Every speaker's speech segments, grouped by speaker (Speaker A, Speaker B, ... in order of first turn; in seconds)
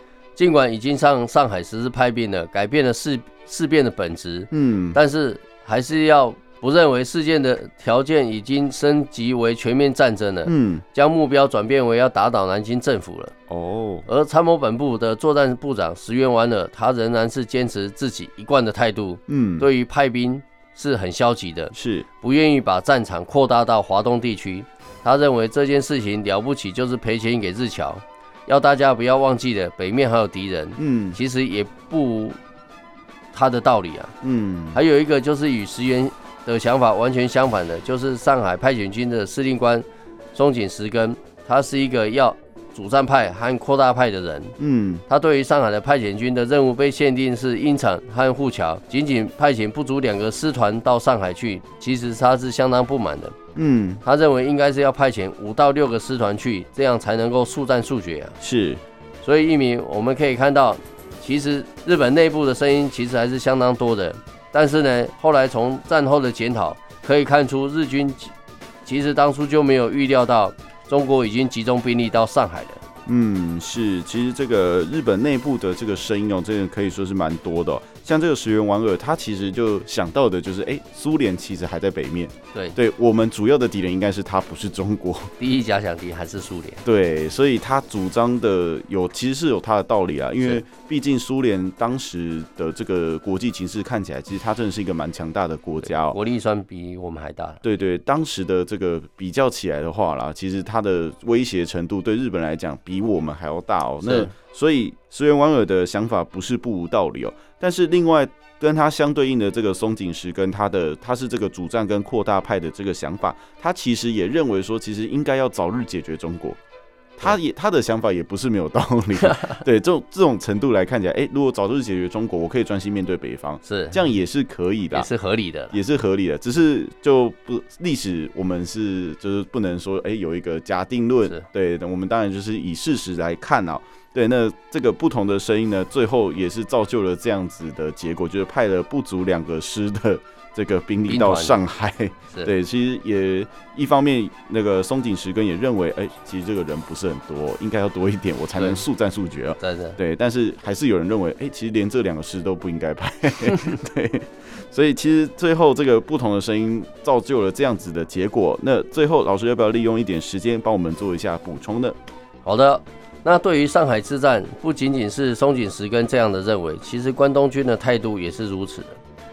Speaker A: 0.3-13.3, 14.1-32.4, 33.3-34.1, 34.7-44.5, 45.1-53.4, 54.0-58.4, 59.2-68.3, 68.8-72.8, 85.4-86.8, 95.8-97.6, 104.0-104.3, 123.6-124.0, 124.9-125.8, 141.1-141.6, 148.6-148.8, 149.6-150.0, 162.4-169.0
Speaker B: 4.5-5.0, 10.4-10.8, 13.5-14.1, 19.3-19.7, 21.7-22.1, 30.8-31.2, 34.2-34.8, 44.6-45.0, 53.5-54.0, 58.4-58.8, 73.0-85.3, 86.8-96.2, 97.6-116.6, 117.2-125.1, 125.7-162.0